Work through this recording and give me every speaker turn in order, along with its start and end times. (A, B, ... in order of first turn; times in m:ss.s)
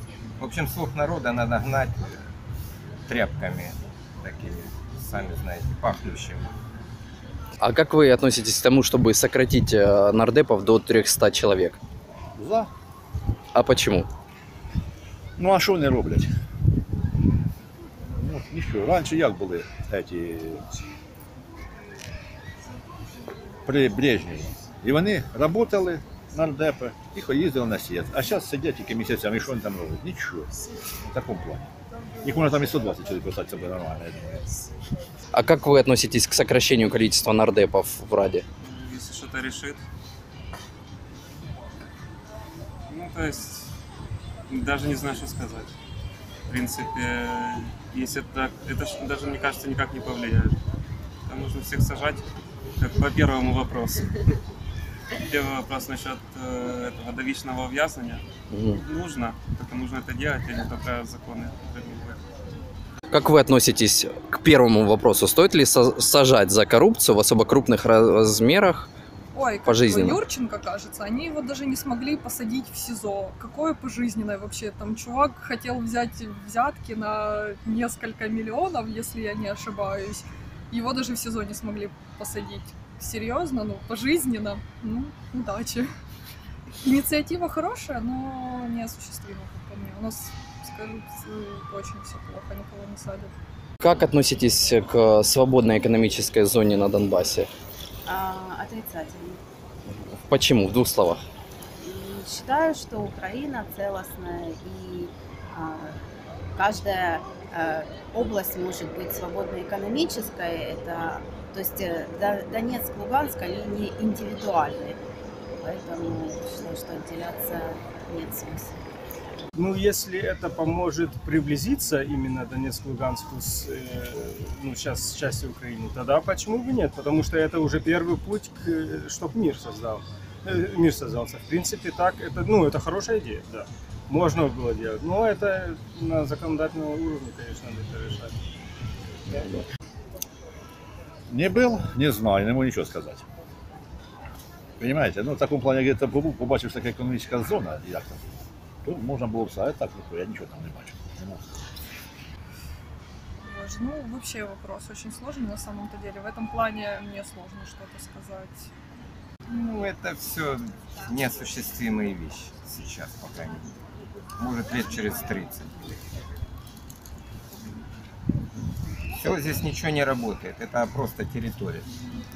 0:00.4-0:02.2 A
0:03.1-0:06.5 A
0:07.6-0:11.8 B
0:12.4-0:12.7 C
0:13.5-0:14.1 B
0:15.4-0:16.3 C
0:18.2-0:20.6 C
0:23.7-0:30.5 C
0:31.0-0:31.7 C
0:32.2-0:34.5 C
0:35.3-0:38.4 B
0:38.6-0:39.8 D
0:42.9-0:43.7 D
0:44.5-0:45.7 D
0:46.5-0:50.6 D
0:51.3-0:52.2 D
0:52.8-0:54.1 D
0:55.3-0:58.2 D
0:58.5-0:58.8 B
0:58.8-1:02.2 D
1:03.1-1:08.9 B
1:09.3-1:25.9 E
1:09.6-1:10.2 B
1:26.8-1:33.3 E
1:33.8-1:37.5 B
1:38.0-1:39.4 F
1:39.9-1:41.2 B
1:41.8-1:46.0 F
1:46.5-1:55.0 F
1:55.6-1:58.8 F
1:59.5-2:18.4 G
2:21.3-2:23.3 C
2:24.8-2:28.3 C
2:28.8-2:31.5 C
2:33.4-2:38.7 E
2:39.5-2:43.7 A
2:44.4-2:46.0 A
2:49.2-2:51.9 A